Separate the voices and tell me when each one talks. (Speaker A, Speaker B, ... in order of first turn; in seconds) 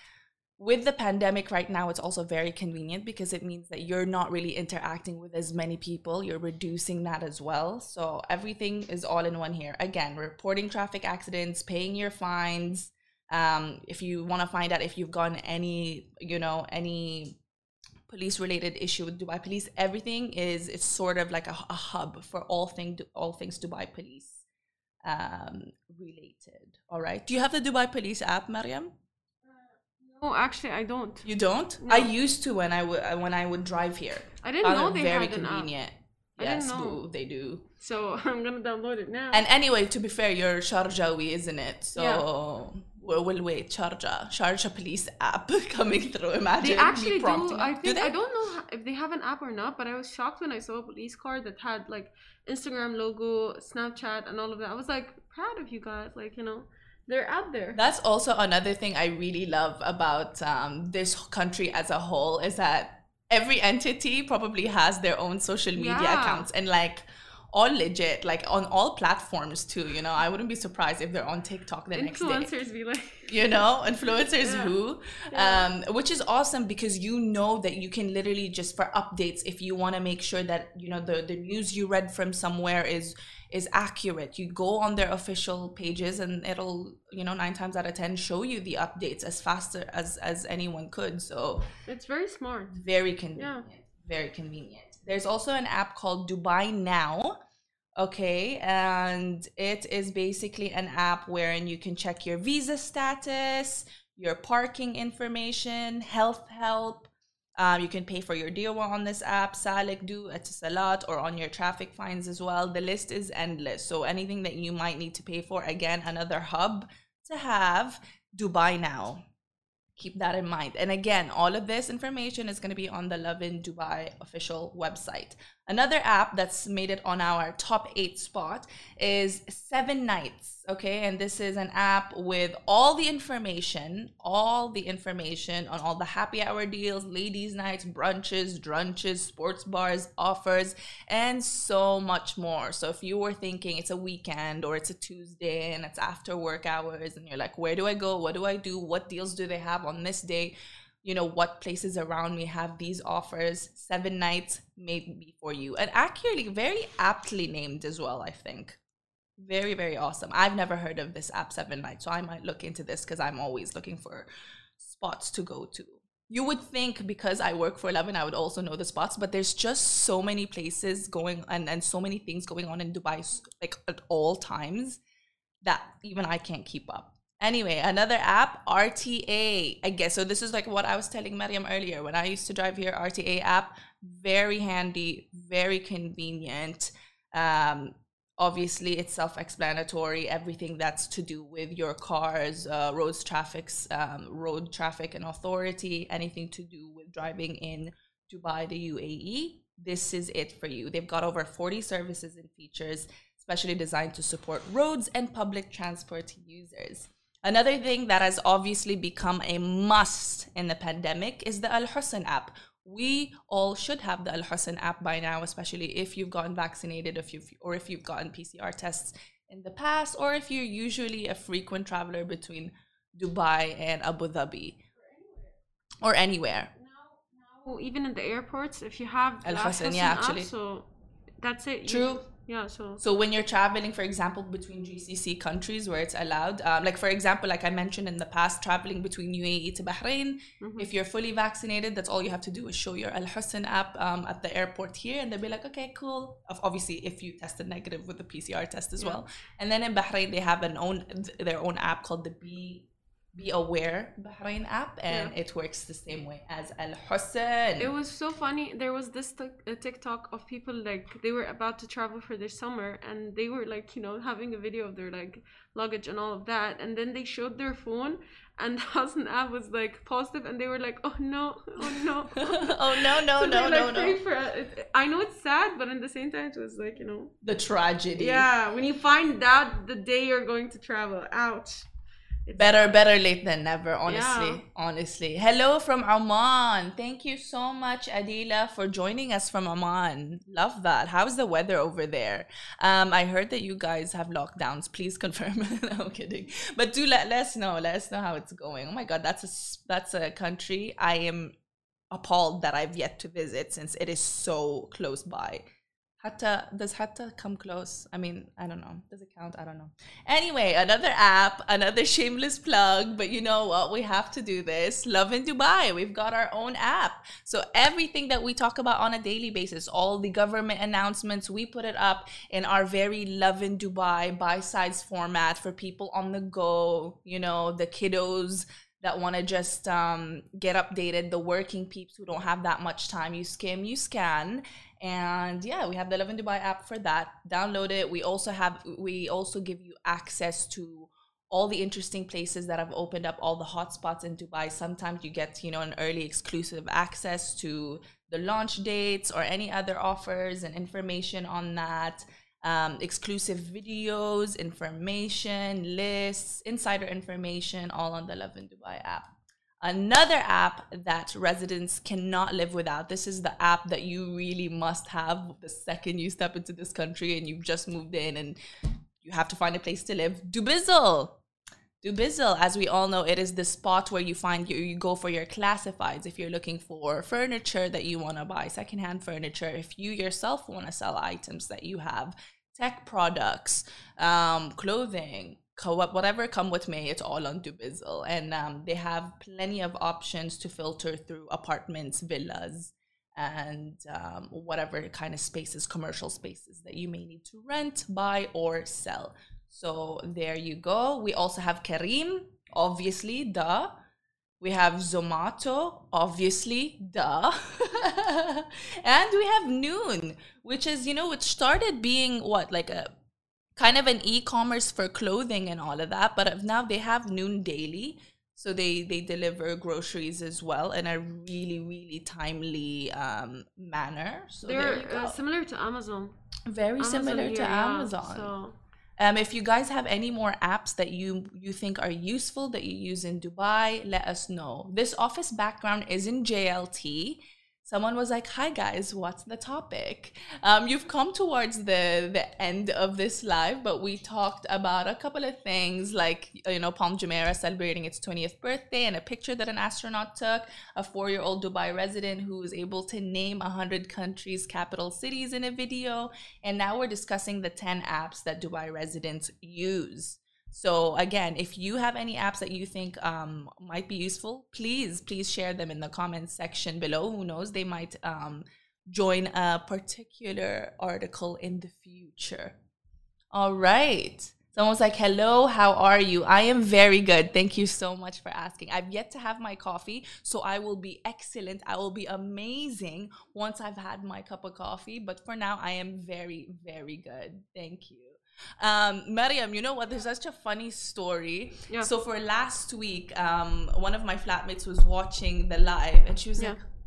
Speaker A: 0.6-17.4, 18.1-24.4, 25.1-28.9, 31.2-37.7, 39.3-48.2, 57.7-72.5, 73.3-91.7, 92.7-97.4, 98.0-119.2, 120.0-158.8, 159.4-164.3, 164.8-175.0, 175.6-224.8, 226.0-226.7, 229.4-230.5, 231.9-232.2, 233.0-257.9, 271.8-274.2, 277.4-278.5, 282.6-301.5, 302.1-305.6, 306.2-359.3, 359.8-368.6, 369.2-371.4, 372.0-403.9, 404.6-413.1, 413.8-425.4, 426.7-428.5, 429.2-472.8, 473.5-496.8
Speaker B: 29.5-32.1, 34.4-35.7, 36.4-37.0, 37.8-39.5, 42.0-42.2, 46.6-57.8, 65.8-66.5, 71.9-73.7, 74.3-74.7, 75.3-75.7, 91.9-92.8, 93.4-93.7, 225.0-225.5, 226.8-230.9, 231.4-233.0, 240.6-240.9, 257.8-277.4, 278.2-281.9, 282.5-283.0, 284.1-284.6, 424.6-426.4, 427.0-428.8